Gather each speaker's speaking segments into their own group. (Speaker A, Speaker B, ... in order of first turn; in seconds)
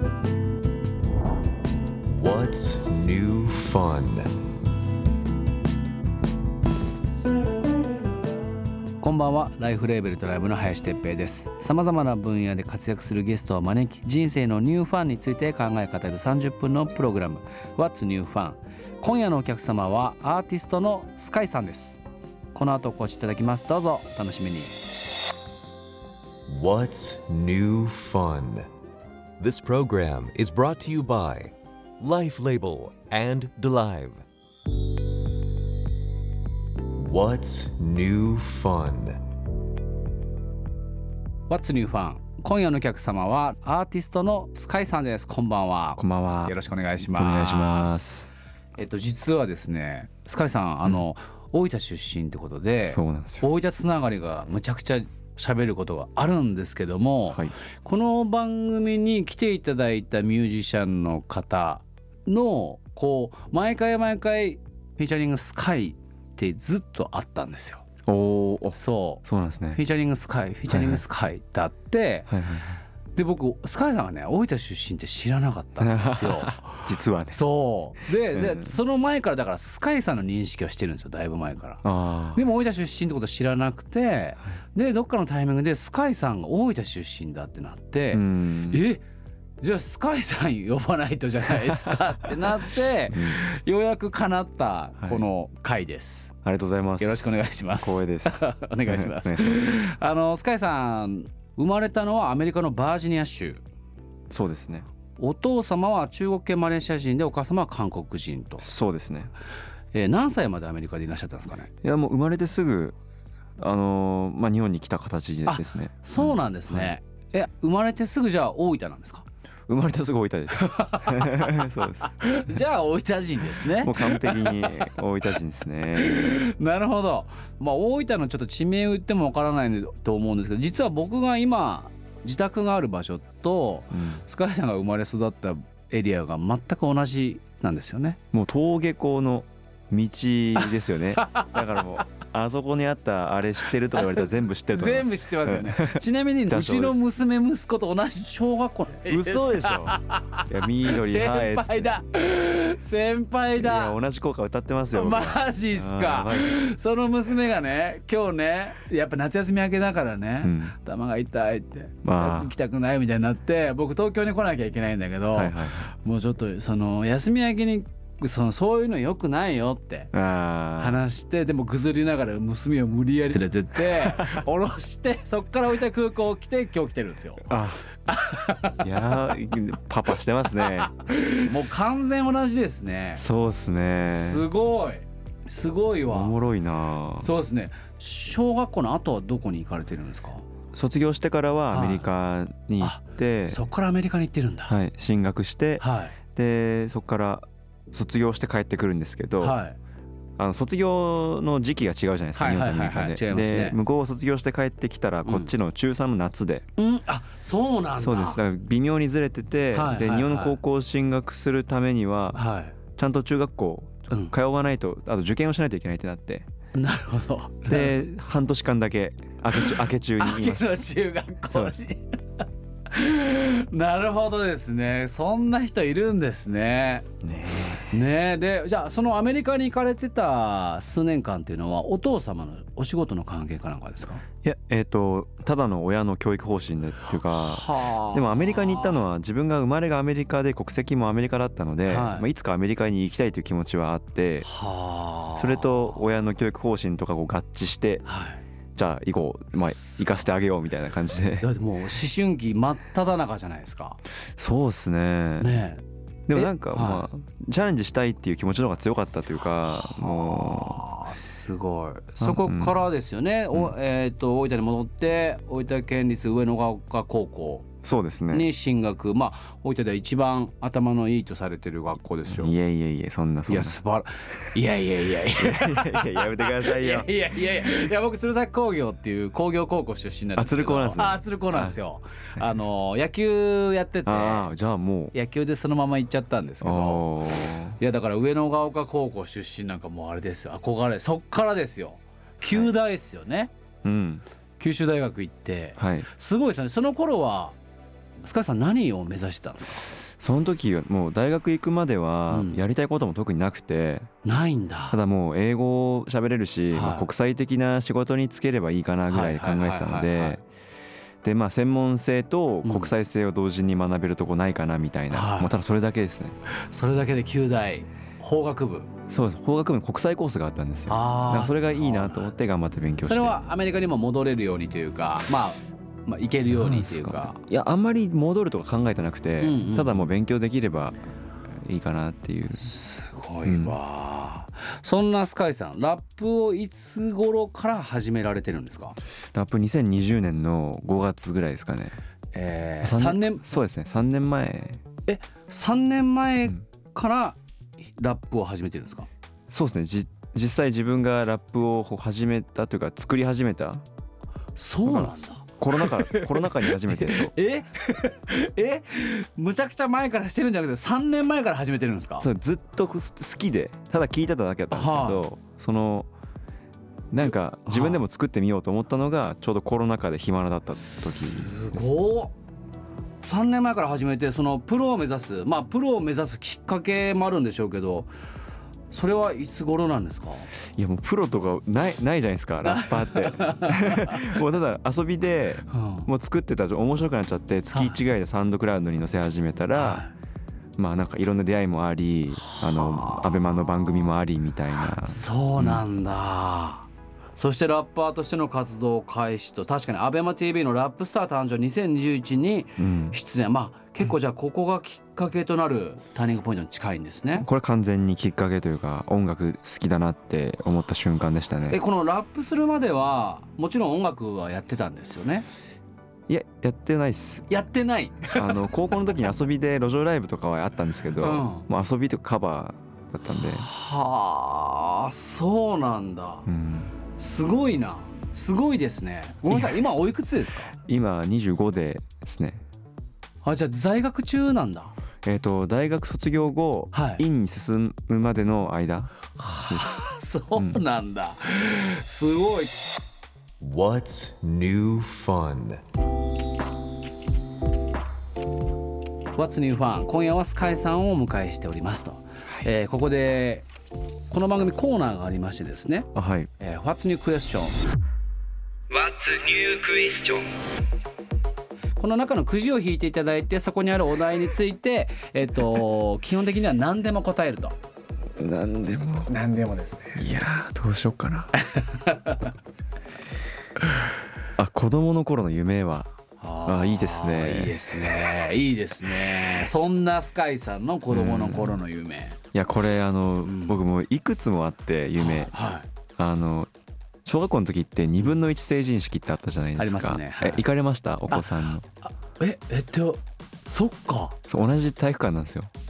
Speaker A: 2.2-4.3, 26.5-28.7, 29.4-34.2, 37.0-39.2, 443.6-445.8
Speaker B: 9.0-22.0, 22.5-24.8, 41.5-48.1, 48.8-67.8, 68.8-69.2, 69.8-72.3, 73.2-81.8, 82.3-89.0, 89.6-96.3, 97.0-103.6, 105.2-108.7, 109.9-111.7, 115.5-119.3, 120.6-124.9, 126.0-138.2, 140.6-141.5, 143.9-154.0, 154.9-170.1, 170.8-177.5, 178.1-178.8, 180.6-183.2, 184.1-186.4, 187.2-190.4, 191.7-192.1, 192.8-194.8, 195.8-196.2, 199.4-199.8, 202.3-203.8, 205.3-205.5, 206.8-208.4, 209.7-210.6, 212.3-212.8, 214.1-214.3, 216.7-218.0, 219.5-227.1, 227.9-234.2, 237.3-239.0, 241.9-242.3, 244.4-246.0, 248.1-248.4, 249.6-250.2, 251.4-254.0, 255.4-255.8, 256.3-257.1, 259.6-267.7, 268.3-272.5, 273.5-284.5, 285.1-293.5, 294.6-297.6, 298.2-299.9, 302.3-302.6, 304.2-305.0, 306.7-307.1, 309.1-310.4, 312.6-312.9, 315.1-315.5, 316.5-318.9, 320.9-322.3, 323.0-327.4, 329.4-330.1, 332.6-339.0, 342.3-343.4, 345.1-347.4, 348.0-349.1, 354.6-362.3, 364.7-365.2, 367.7-368.0, 370.8-372.3, 373.2-378.1, 378.9-380.5, 382.6-384.3, 385.7-386.1, 387.7-388.0, 389.8-390.1, 392.4-394.1, 394.8-407.5, 411.7-415.5, 417.5-418.7, 421.2-421.7, 423.3-426.5, 427.2-430.8, 433.4-434.9, 436.9-437.2, 439.4-442.9, 449.4-453.7, 454.3-457.8, 458.9-460.4, 462.0-467.8, 469.3-470.3, 471.6-472.5, 476.4-482.4, 483.4-483.8, 485.2-485.9, 489.8-490.7, 491.3-494.4
Speaker C: 46.0-46.6, 47.1-48.3, 52.8-53.5, 68.1-69.8, 70.7-71.0, 72.3-72.8, 75.8-77.4, 78.3-78.8, 81.8-82.4, 88.1-88.8, 93.1-93.4, 95.0-95.2, 96.4-99.8, 104.3-104.9, 108.6-109.3, 111.8-113.0, 113.6-116.9, 119.7-122.4, 123.6-126.4, 133.9-134.2, 138.3-147.0, 149.1-151.9, 153.6-156.6, 160.4-160.8, 162.0-162.5, 165.3-165.9, 170.1-171.0, 174.0-174.3, 177.5-177.8, 178.8-180.9, 183.2-184.5, 186.1-187.3, 190.7-193.6, 194.7-199.6, 200.4-206.7, 208.0-212.4, 213.0-216.5, 217.7-220.8, 221.5-221.8, 227.2-227.9, 234.4-244.5, 245.4-248.1, 248.8-251.5, 254.4-255.6, 256.3-260.8, 262.2-262.8, 267.8-268.5, 272.3-273.8, 275.3-277.1, 280.4-281.8, 284.1-285.1, 286.6-287.8, 292.4-292.7, 293.8-294.2, 295.8-296.1, 300.1-304.1, 304.9-310.4, 311.2-316.4, 319.1-323.4, 326.5-330.9, 331.5-332.7, 333.4-333.8, 339.3-342.0, 342.8-344.8, 349.5-353.8, 354.9-357.3, 362.2-366.1, 367.1-371.9, 380.8-390.0, 390.8-395.9, 402.8-403.2, 407.4-411.8, 416.3-417.5, 418.3-423.7, 426.5-426.9, 429.5-429.8, 430.9-432.6, 435.2-439.1, 439.7-440.0, 440.6-440.8, 456.1-456.5, 468.4-469.3, 470.1-471.5, 474.6-476.1, 476.6-478.2, 481.1-481.8, 482.5-486.7, 487.2-491.9, 494.5-495.7